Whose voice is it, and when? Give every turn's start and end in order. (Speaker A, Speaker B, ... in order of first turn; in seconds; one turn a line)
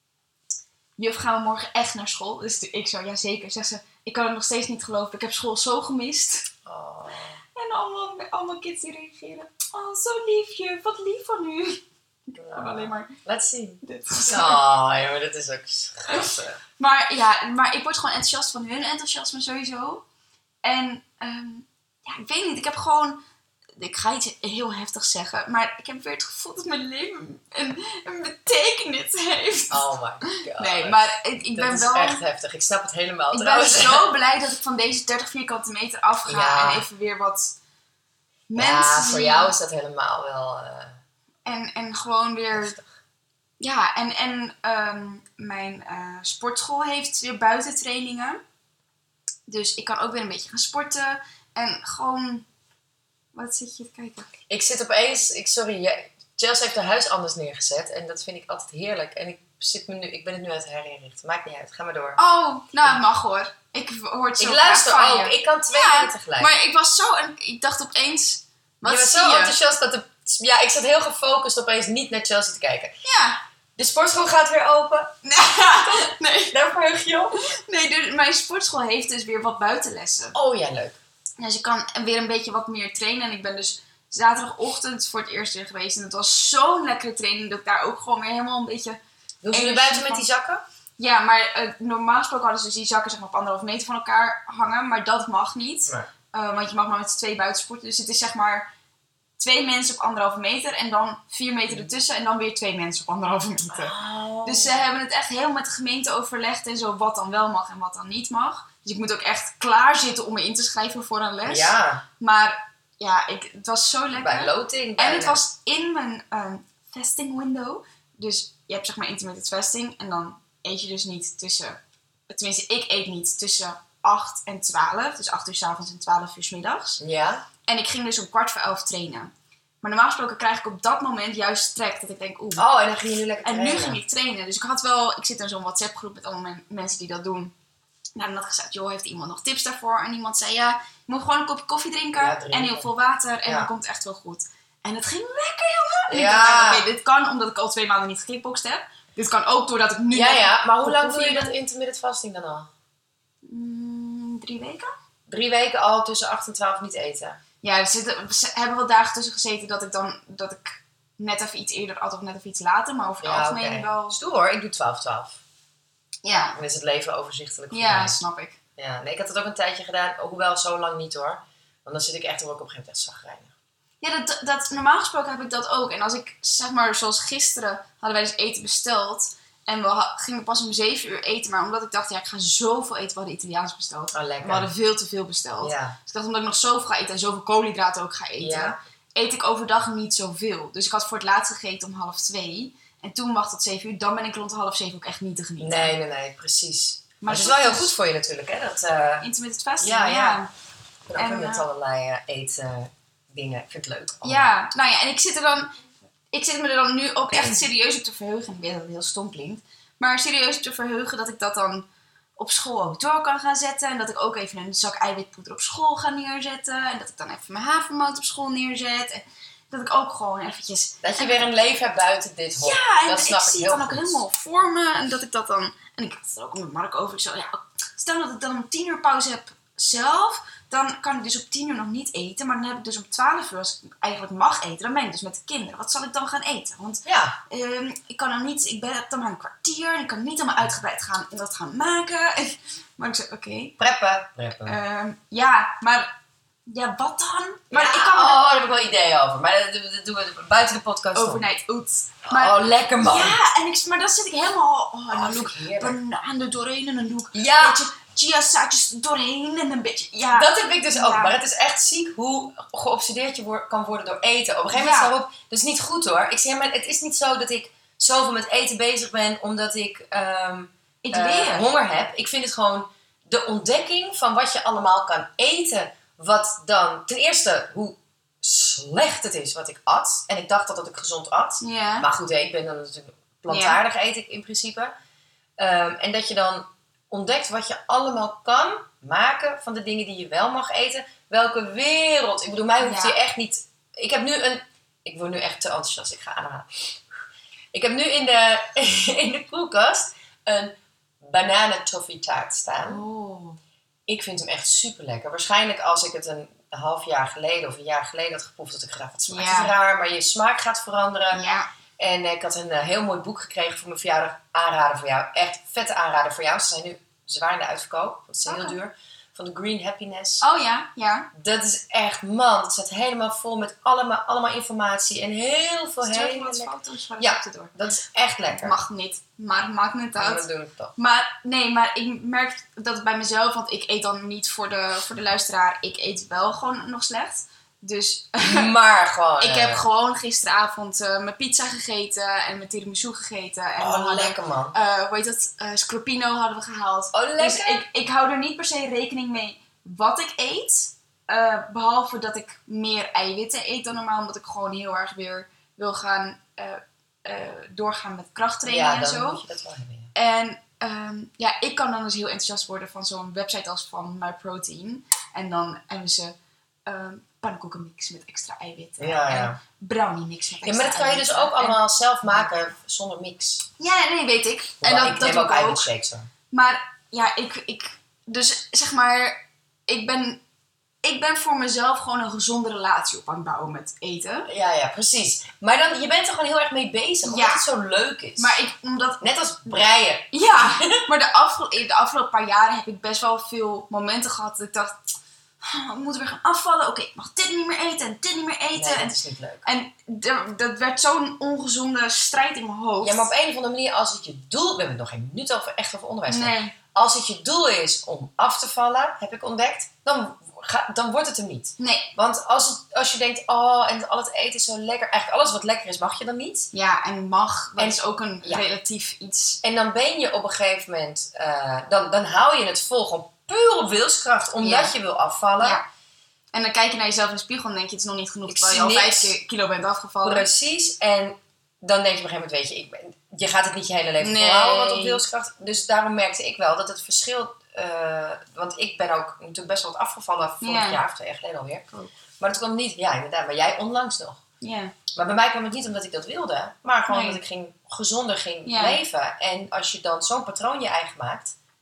Speaker A: 1.0-6.5
Speaker B: 6.6-7.4
Speaker A: 7.5-13.1
Speaker B: 12.3-16.6
Speaker A: 13.8-14.6
Speaker A: 16.1-20.0
Speaker A: 20.6-23.2
Speaker A: 23.8-32.2
Speaker B: 29.7-34.1
Speaker A: 33.3-37.6
Speaker B: 36.2-36.8
Speaker A: 38.5-39.5
Speaker B: 38.5-41.0
Speaker A: 41.4-42.8
Speaker B: 42.5-42.9
Speaker A: 43.6-48.4
Speaker A: 49.5-52.5
Speaker A: 53.3-54.3
Speaker B: 54.5-62.2
Speaker A: 62.2-69.5
Speaker B: 64.4-66.5
Speaker B: 68.8-73.0
Speaker A: 73.0-73.4
Speaker B: 73.8-75.2
Speaker A: 75.2-76.6
Speaker B: 75.8-77.4
Speaker A: 77.4-80.4
Speaker B: 80.3-81.0
Speaker A: 81.4-89.0
Speaker B: 89.4-90.6
Speaker A: 89.5-90.3
Speaker A: 91.0-98.7
Speaker A: 99.4-121.8
Speaker B: 103.7-104.8
Speaker B: 111.4-112.0
Speaker B: 114.1-115.4
Speaker A: 122.3-127.0
Speaker B: 127.0-127.4
Speaker A: 127.6-132.7
Speaker B: 132.6-134.0
Speaker A: 133.4-137.5
Speaker A: 138.2-151.5
Speaker B: 142.2-142.9
Speaker B: 143.4-143.7
Speaker B: 146.1-146.9
Speaker B: 150.1-152.7
Speaker A: 153.4-154.9
Speaker B: 155.3-157.4
Speaker A: 157.6-164.2
Speaker B: 163.2-165.4
Speaker A: 166.2-166.6
Speaker B: 166.5-168.2
Speaker A: 167.7-168.6
Speaker B: 168.8-173.5
Speaker A: 174.0-195.9
Speaker B: 184.1-184.7
Speaker B: 185.6-186.0
Speaker B: 188.4-188.8
Speaker B: 195.6-199.3
Speaker A: 197.2-197.9
Speaker A: 199.2-200.5
Speaker B: 199.8-200.4
Speaker B: 201.1-204.5
Speaker A: 201.1-201.7
Speaker A: 204.2-205.7
Speaker A: 206.3-221.5
Speaker B: 221.0-224.2
Speaker A: 222.6-243.7
Speaker B: 237.0-237.3
Speaker B: 243.8-244.8
Speaker A: 244.6-246.1
Speaker A: 246.7-248.4
Speaker B: 247.7-251.4
Speaker A: 251.1-261.4
Speaker B: 252.3-253.4
Speaker B: 255.1-256.0
Speaker B: 257.3-257.8
Speaker B: 260.3-284.9
Speaker A: 264.7-265.1
Speaker A: 271.0-271.7
Speaker A: 281.6-282.1
Speaker A: 283.5-283.8
Speaker B: 285.6-297.0
Speaker A: 292.8-293.1
Speaker B: 297.7-303.0
Speaker A: 302.8-303.6
Speaker B: 304.1-311.4
Speaker A: 309.3-309.7
Speaker A: 311.3-311.7
Speaker B: 312.0-320.4
Speaker A: 318.4-318.8
Speaker A: 320.4-321.3
Speaker B: 321.3-328.8
Speaker A: 326.0-327.7
Speaker A: 328.5-338.7
Speaker B: 330.2-330.9
Speaker B: 338.4-339.8
Speaker A: 339.4-359.4
Speaker B: 343.8-344.7
Speaker B: 347.1-347.9
Speaker B: 358.6-360.1
Speaker A: 360.1-366.3
Speaker A: 366.9-372.4
Speaker B: 369.0-369.6
Speaker B: 370.6-373.6
Speaker A: 373.8-375.9
Speaker B: 374.8-376.3
Speaker A: 376.5-380.4
Speaker A: 381.0-384.5
Speaker B: 384.5-388.6
Speaker A: 387.2-387.6
Speaker A: 388.4-389.8
Speaker B: 389.2-391.1
Speaker A: 390.3-403.3
Speaker B: 398.7-399.7
Speaker B: 403.0-416.7
Speaker A: 406.3-406.7
Speaker A: 411.8-412.1
Speaker A: 416.7-419.6
Speaker B: 417.8-418.6
Speaker B: 419.6-425.8
Speaker A: 424.6-424.9
Speaker A: 426.5-430.5
Speaker B: 428.5-429.4
Speaker B: 430.2-444.4
Speaker A: 434.2-435.2
Speaker A: 440.6-441.0
Speaker A: 444.6-444.9
Speaker B: 445.1-451.6
Speaker A: 447.1-447.4
Speaker A: 448.6-449.0